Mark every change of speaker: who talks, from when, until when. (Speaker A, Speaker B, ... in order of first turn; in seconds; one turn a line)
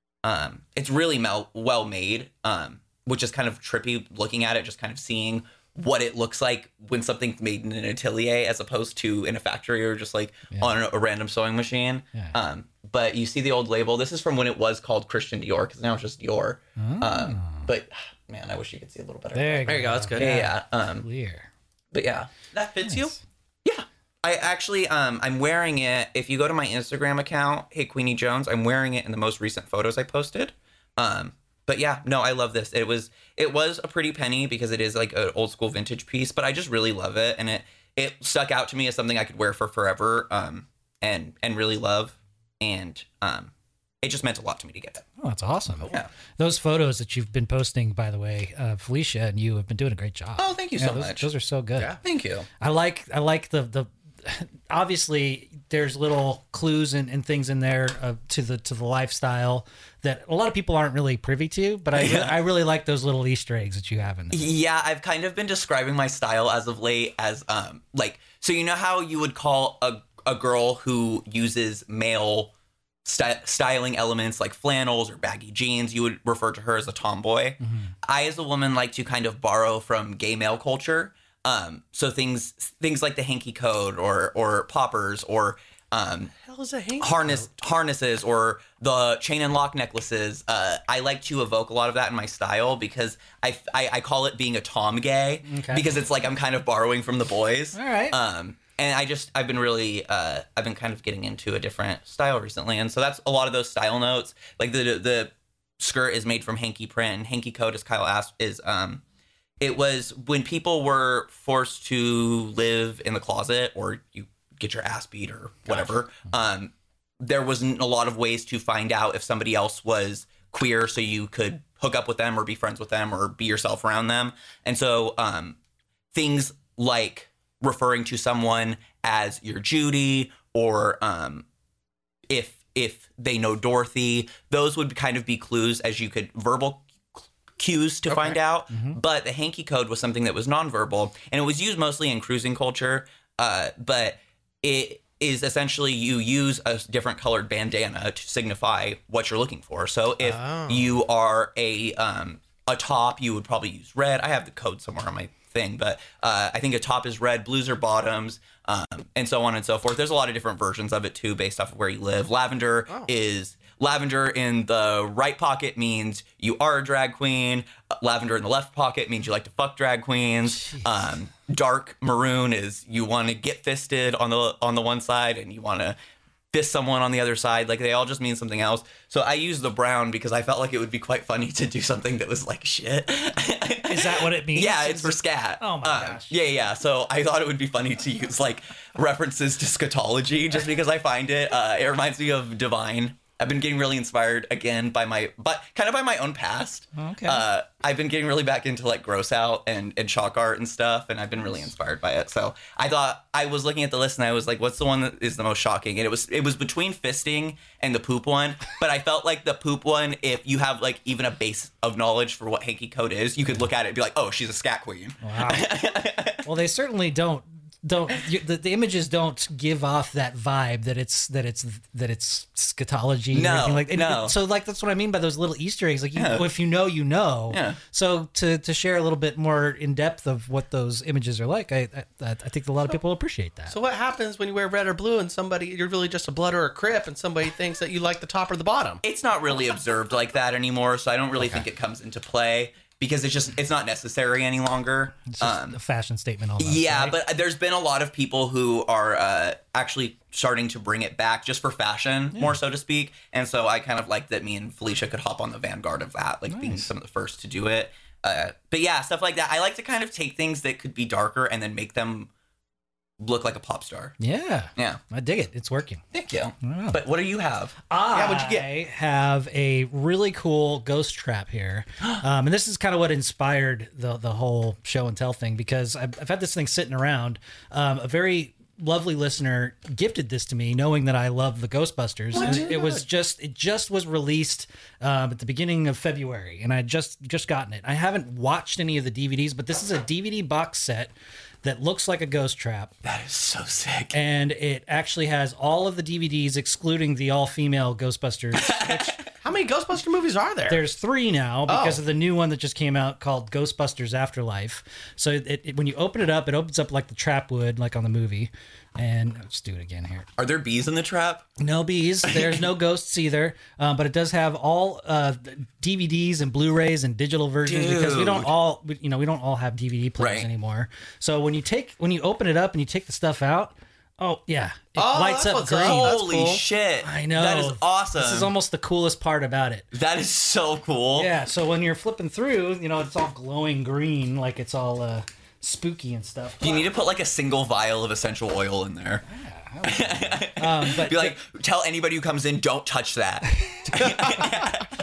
Speaker A: 0.2-21.0
Speaker B: 16.8-17.7
Speaker B: 19.3-21.5
Speaker C: 19.6-20.4
Speaker A: 21.9-23.1
Speaker B: 22.8-23.2
Speaker A: 23.6-43.5
Speaker A: 44.0-45.0
Speaker B: 45.2-52.0
Speaker C: 45.7-46.0
Speaker A: 50.4-51.3
Speaker A: 52.0-52.5
Speaker B: 52.6-64.4
Speaker A: 61.9-62.4
Speaker A: 64.3-72.5
Speaker A: 73.0-86.3
Speaker B: 77.6-77.9
Speaker C: 86.3-87.5
Speaker A: 87.0-109.0
Speaker B: 95.4-95.9
Speaker B: 97.7-98.2
Speaker A: 109.6-125.6
Speaker A: 126.1-131.4
Speaker A: 132.3-176.0
Speaker C: 138.1-138.4
Speaker B: 138.7-139.0
Speaker C: 150.2-151.0
Speaker B: 170.5-170.9
Speaker A: 176.5-216.4
Speaker B: 183.9-186.4
Speaker B: 196.9-197.4
Speaker B: 215.2-215.8
Speaker B: 216.4-233.8
Speaker A: 223.3-224.3
Speaker A: 226.2-226.5
Speaker A: 227.5-227.8
Speaker C: 233.7-239.0
Speaker A: 239.0-245.8
Speaker C: 241.4-241.6
Speaker B: 245.3-247.2
Speaker A: 246.6-262.3
Speaker B: 252.3-252.6
Speaker B: 256.5-256.9
Speaker A: 263.2-264.1
Speaker B: 264.2-266.0
Speaker A: 264.8-265.0
Speaker A: 266.1-267.8
Speaker B: 266.6-267.0
Speaker B: 267.9-291.1
Speaker C: 268.1-268.7
Speaker C: 282.3-283.0
Speaker A: 282.4-282.6
Speaker B: 291.6-292.9
Speaker A: 293.0-294.1
Speaker B: 294.1-299.2
Speaker A: 298.6-299.3
Speaker C: 299.4-300.8
Speaker B: 300.7-310.3
Speaker C: 301.7-302.0
Speaker A: 310.4-311.4
Speaker B: 311.6-326.1
Speaker A: 317.6-318.5
Speaker A: 320.2-320.5
Speaker C: 324.9-326.6
Speaker A: 325.8-328.5
Speaker B: 327.0-329.9
Speaker A: 329.9-331.3
Speaker B: 331.1-336.9
Speaker A: 336.6-339.2
Speaker B: 339.2-341.4
Speaker A: 339.9-344.9
Speaker B: 343.6-344.6